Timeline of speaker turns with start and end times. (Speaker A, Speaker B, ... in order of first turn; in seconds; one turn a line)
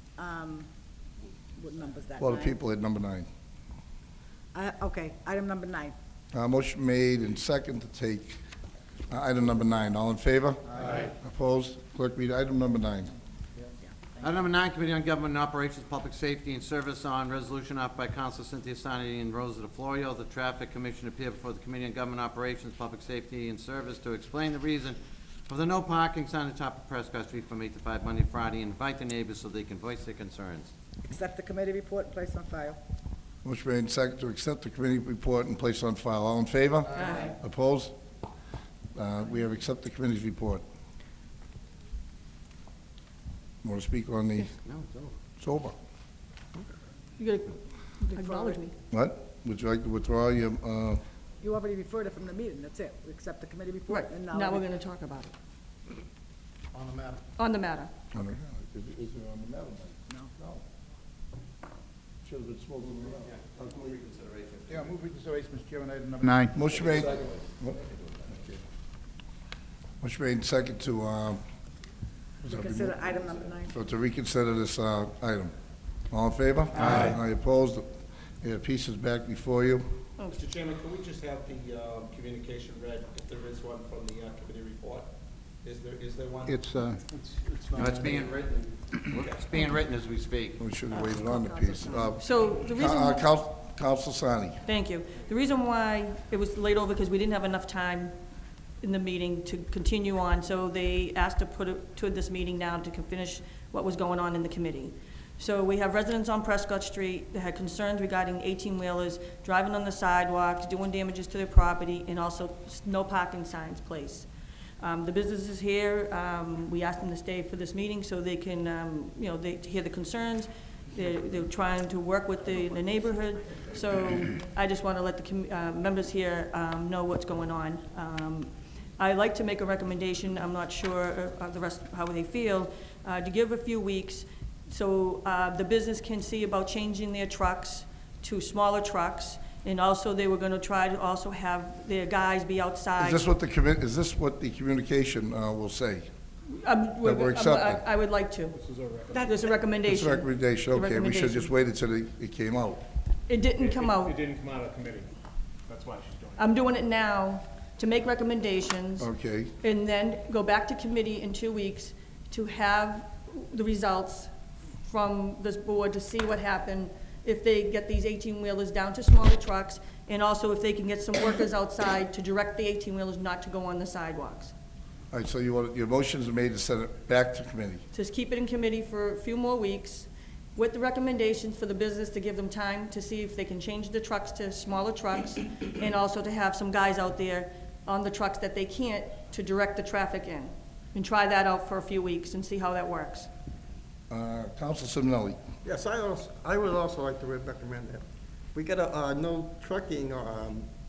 Speaker A: 0.2-0.7
Speaker A: 1.6-2.6
Speaker B: 2.2-3.3
Speaker A: 4.5-5.9
Speaker B: 6.3-8.4
Speaker B: 9.1-13.1
Speaker C: 14.2-30.7
Speaker A: 31.0-32.8
Speaker B: 33.4-38.0
Speaker D: 37.0-37.3
Speaker B: 38.9-40.6
Speaker B: 43.6-44.5
Speaker C: 44.6-45.1
Speaker B: 45.4-45.8
Speaker D: 47.2-48.8
Speaker A: 48.1-48.6
Speaker B: 48.9-51.0
Speaker A: 51.4-54.7
Speaker D: 53.9-55.3
Speaker D: 57.4-57.9
Speaker B: 58.1-60.6
Speaker B: 62.2-63.5
Speaker E: 64.7-66.7
Speaker B: 66.5-68.6
Speaker B: 70.0-71.4
Speaker B: 72.4-75.5
Speaker A: 72.5-73.7
Speaker B: 76.1-77.9
Speaker F: 76.8-77.2
Speaker B: 78.4-79.9
Speaker F: 80.3-85.1
Speaker F: 85.6-89.4
Speaker E: 86.5-87.0
Speaker C: 87.7-90.6
Speaker B: 90.6-94.6
Speaker A: 91.0-92.2
Speaker D: 92.2-93.3
Speaker D: 94.7-98.2
Speaker D: 98.8-114.3
Speaker D: 114.8-143.2
Speaker B: 143.0-146.1
Speaker D: 146.5-148.6
Speaker B: 147.0-147.8
Speaker F: 148.5-149.3
Speaker A: 149.1-149.4
Speaker D: 149.2-151.5
Speaker B: 149.8-152.8
Speaker D: 153.3-154.2
Speaker F: 153.6-155.1
Speaker F: 155.7-156.5
Speaker D: 156.4-159.1
Speaker B: 159.0-159.5
Speaker D: 159.6-164.3
Speaker D: 164.8-174.5
Speaker B: 175.1-177.8
Speaker D: 177.9-193.3
Speaker B: 194.1-195.4
Speaker G: 195.6-200.7